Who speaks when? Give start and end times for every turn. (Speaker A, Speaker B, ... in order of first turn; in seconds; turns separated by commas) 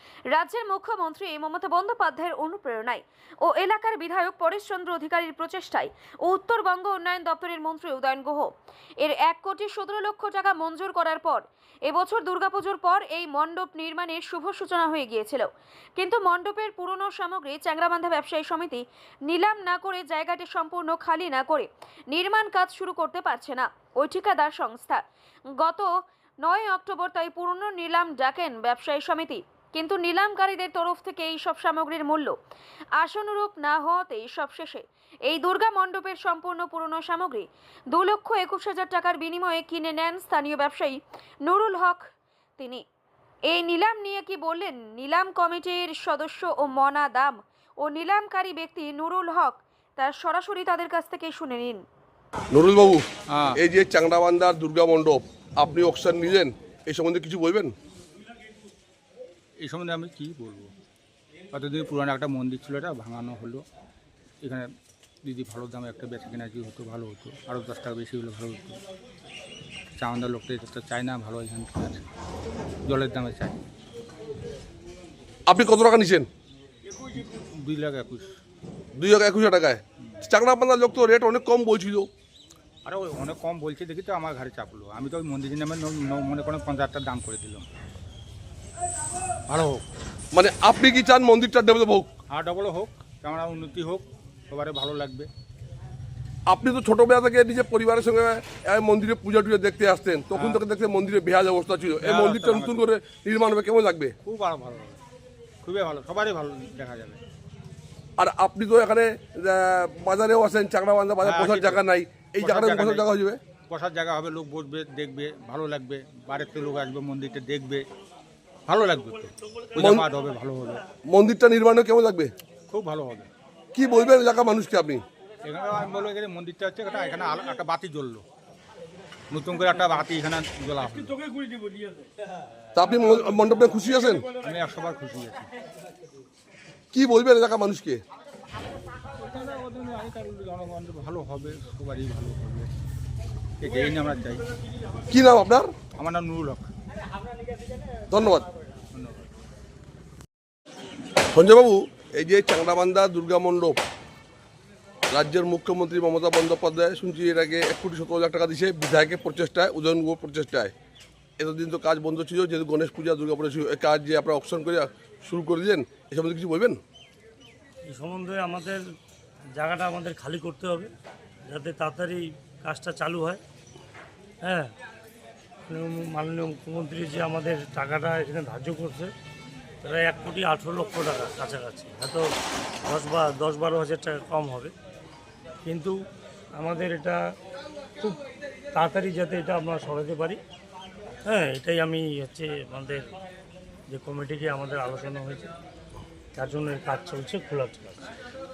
Speaker A: 0.3-25.0, Speaker A: 25.6-25.9, Speaker A: 26.4-32.3, Speaker A: 33.0-42.8, Speaker A: 43.5-51.8, Speaker B: 52.5-57.7, Speaker C: 53.3-53.6, Speaker C: 59.6-60.7, Speaker C: 61.5-63.6, Speaker C: 64.4-64.7, Speaker C: 65.2-68.8, Speaker C: 70.0-72.0, Speaker C: 72.8-73.6, Speaker B: 75.5-76.3, Speaker C: 77.0-78.3, Speaker B: 79.0-82.1, Speaker C: 82.8-87.7, Speaker C: 89.5-89.8, Speaker B: 90.3-92.1, Speaker C: 92.3-95.3, Speaker B: 96.5-104.1, Speaker C: 100.3-100.6, Speaker C: 102.0-102.8, Speaker C: 104.2-105.0, Speaker C: 105.6-107.2, Speaker B: 108.2-113.4, Speaker C: 111.2-111.8, Speaker C: 112.4-113.1, Speaker C: 113.7-117.8, Speaker C: 118.7-120.8, Speaker B: 119.8-120.0, Speaker B: 121.1-122.3, Speaker C: 122.7-123.3, Speaker B: 123.7-125.0, Speaker C: 125.4-128.2, Speaker C: 129.3-131.3, Speaker A: 131.3-131.9, Speaker B: 132.7-134.2, Speaker C: 134.4-135.5, Speaker B: 136.9-138.0, Speaker C: 139.2-142.7, Speaker C: 143.6-144.4, Speaker B: 145.1-145.7, Speaker C: 146.0-146.7, Speaker B: 148.1-148.5, Speaker C: 148.9-149.3, Speaker B: 151.3-153.8, Speaker B: 155.1-160.7, Speaker B: 161.4-166.8, Speaker D: 167.9-168.8, Speaker D: 169.6-170.9, Speaker D: 171.4-173.4, Speaker D: 174.4-174.7, Speaker D: 175.7-179.1, Speaker D: 179.8-182.3, Speaker D: 182.8-184.7, Speaker D: 185.7-185.9, Speaker D: 186.6-187.2, Speaker D: 188.7-190.4, Speaker D: 191.3-193.0, Speaker D: 193.9-195.5, Speaker D: 196.4-198.0